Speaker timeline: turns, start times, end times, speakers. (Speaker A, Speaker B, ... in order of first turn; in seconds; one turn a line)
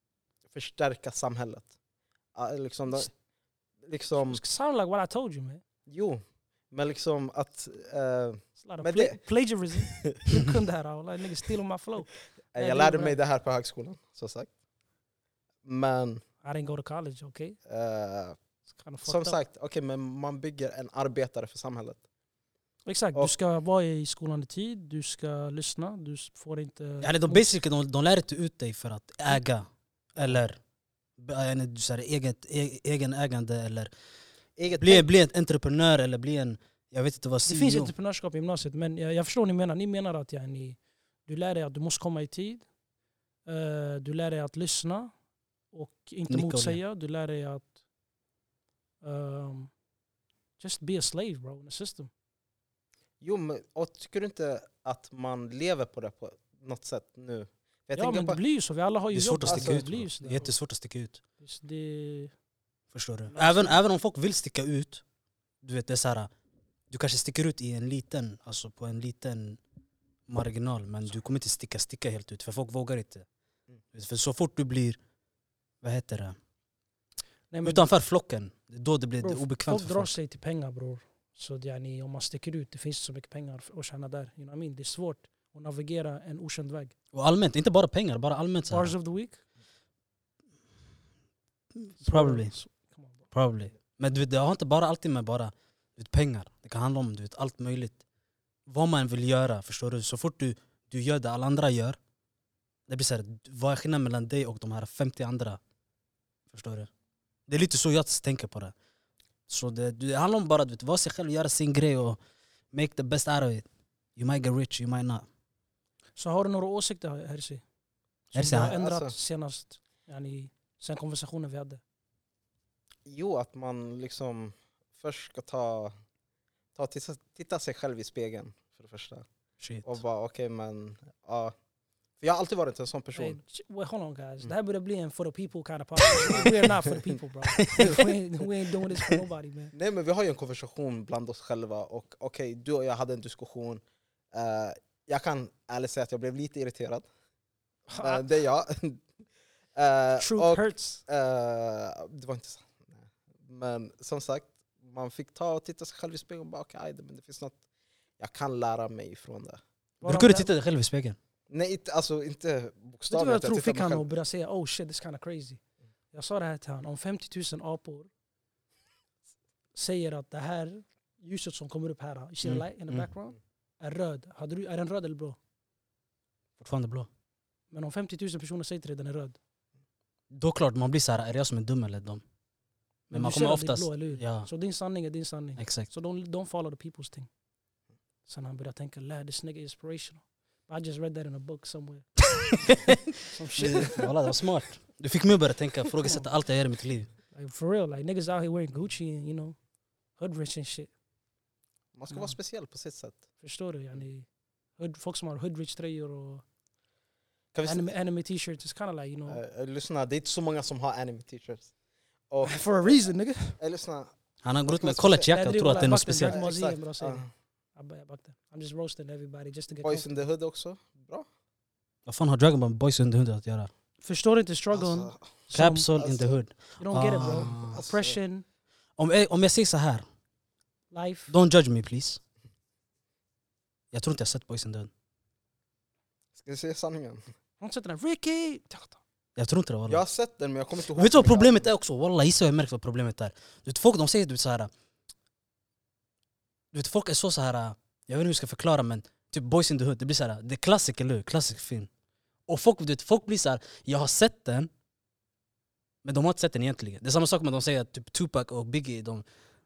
Speaker A: 0.5-1.7
Speaker A: 2.3-3.1
Speaker A: 3.8-4.4
Speaker B: 4.2-5.6
Speaker A: 5.9-9.2
Speaker B: 8.6-13.2
Speaker A: 9.8-10.5
Speaker A: 12.5-14.5
Speaker A: 15.6-16.2
Speaker B: 16.4-17.6
Speaker A: 17.7-18.4
Speaker B: 18.8-19.4
Speaker A: 19.0-22.0
Speaker B: 22.9-27.4
Speaker C: 27.0-30.6
Speaker C: 31.2-33.9
Speaker A: 34.6-35.0
Speaker C: 34.8-37.9
Speaker B: 37.5-42.6
Speaker B: 43.5-45.1
Speaker B: 45.7-47.7
Speaker C: 46.3-46.8
Speaker B: 49.0-49.7
Speaker B: 50.6-52.1
Speaker A: 53.2-58.4
Speaker B: 57.9-60.5
Speaker C: 59.1-61.2
Speaker A: 59.5-59.8
Speaker B: 61.4-62.3
Speaker C: 62.9-65.0
Speaker B: 63.3-63.8
Speaker C: 65.6-66.3
Speaker C: 66.9-69.6
Speaker C: 70.3-73.2
Speaker C: 73.9-75.0
Speaker C: 75.8-76.3
Speaker B: 77.5-77.8
Speaker C: 77.6-80.2
Speaker B: 79.2-86.9
Speaker C: 87.1-88.9
Speaker B: 88.7-89.4
Speaker C: 91.8-92.5
Speaker B: 92.0-93.3
Speaker C: 93.3-98.0
Speaker C: 98.7-102.0
Speaker C: 102.9-105.6
Speaker C: 106.5-106.9
Speaker C: 107.5-108.7
Speaker C: 109.5-112.2
Speaker C: 112.7-113.6
Speaker C: 114.2-115.2
Speaker B: 116.2-117.6
Speaker B: 118.3-121.8
Speaker C: 118.3-118.7
Speaker A: 118.5-119.1
Speaker A: 123.0-125.9
Speaker A: 126.7-129.3
Speaker C: 129.6-129.9
Speaker A: 129.8-131.5
Speaker A: 132.2-133.4
Speaker B: 133.1-139.7
Speaker A: 136.3-137.2
Speaker C: 137.6-138.0
Speaker A: 139.7-143.8
Speaker A: 144.3-147.0
Speaker B: 147.9-148.2
Speaker A: 147.9-149.0
Speaker A: 149.7-157.6
Speaker B: 150.2-151.0
Speaker A: 158.2-159.6
Speaker B: 160.0-160.5
Speaker C: 160.0-161.2
Speaker A: 161.5-164.0
Speaker B: 163.1-165.6
Speaker B: 166.1-168.1
Speaker B: 169.7-175.4
Speaker C: 172.4-173.1
Speaker C: 176.6-177.1
Speaker B: 177.7-179.4
Speaker C: 180.3-182.2
Speaker B: 183.1-187.3
Speaker C: 183.1-184.5
Speaker C: 185.6-185.9
Speaker B: 188.3-192.1
Speaker B: 192.6-194.1
Speaker C: 192.7-197.1
Speaker B: 196.0-196.3
Speaker B: 197.3-199.6
Speaker B: 200.2-200.9
Speaker A: 201.9-203.2
Speaker B: 202.1-202.3
Speaker B: 203.4-204.3
Speaker B: 204.8-206.4
Speaker A: 207.5-207.9
Speaker B: 207.6-209.4
Speaker A: 209.3-211.7
Speaker A: 212.3-213.0
Speaker B: 212.4-213.6
Speaker A: 213.6-214.1
Speaker C: 214.4-216.4
Speaker A: 214.7-217.3
Speaker B: 215.3-217.2
Speaker B: 217.8-220.1
Speaker A: 219.8-221.3
Speaker C: 222.1-223.7
Speaker B: 224.0-225.9
Speaker A: 224.7-225.4
Speaker C: 225.5-227.8
Speaker A: 225.9-226.4
Speaker B: 226.8-228.4
Speaker A: 227.2-228.2
Speaker C: 229.0-230.1
Speaker B: 230.9-231.3
Speaker C: 231.3-232.2
Speaker C: 233.9-234.9
Speaker A: 236.3-237.2
Speaker B: 237.6-239.0
Speaker C: 239.3-240.0
Speaker A: 239.9-241.7
Speaker C: 240.9-244.7
Speaker C: 246.7-251.9
Speaker C: 252.5-254.7
Speaker C: 256.0-259.2